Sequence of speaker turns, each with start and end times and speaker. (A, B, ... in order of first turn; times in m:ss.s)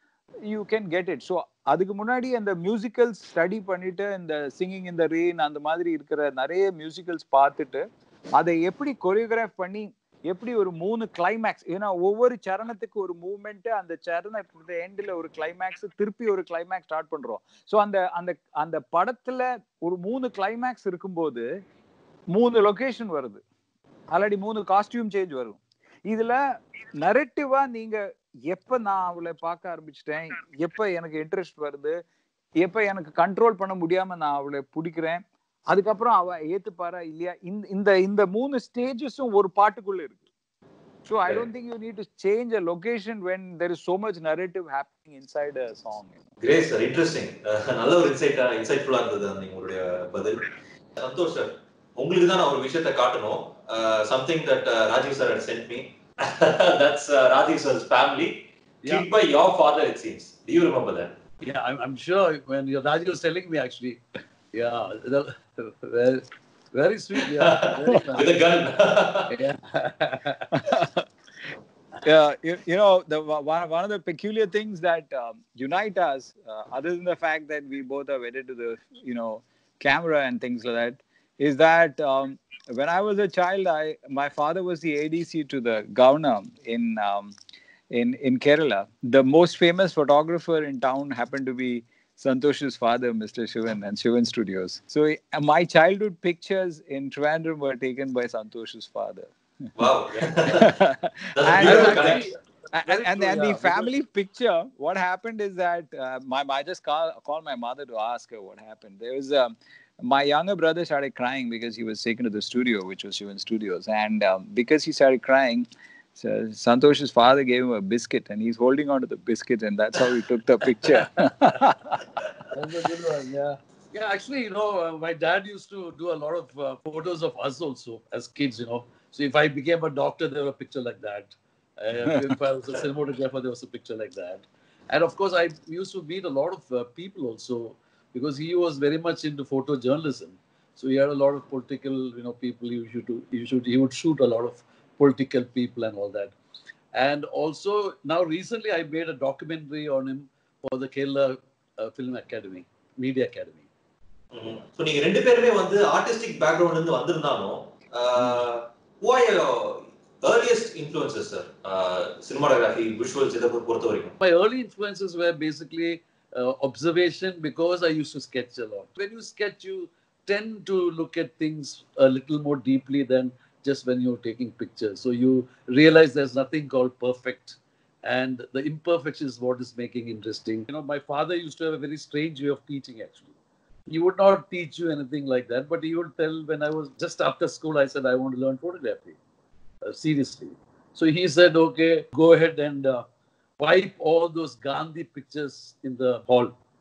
0:00.4-0:21.4 A
0:22.3-0:23.4 A
0:24.1-0:26.4 A
0:27.0-0:32.0 A
0:32.6-0:40.2 A
0:41.0-0:46.2 A
0:46.4-1:01.1 B
0:58.8-0:59.1 C
1:01.4-1:04.0 C
1:04.5-1:08.4 C
1:07.2-1:09.4 B
1:09.3-1:10.6 C
1:10.5-1:11.0 A
1:12.0-1:27.3 A
1:27.9-1:39.3 A
1:39.8-1:40.7 B
1:40.3-2:02.0 A
1:41.4-1:42.3 B
1:41.6-1:43.9 C
2:02.5-2:26.3 C
2:26.9-2:33.7 C
2:34.3-2:44.1 B
2:44.2-3:03.3 C
3:03.9-3:09.2 C
3:09.8-3:13.0 C
3:13.6-3:16.5 C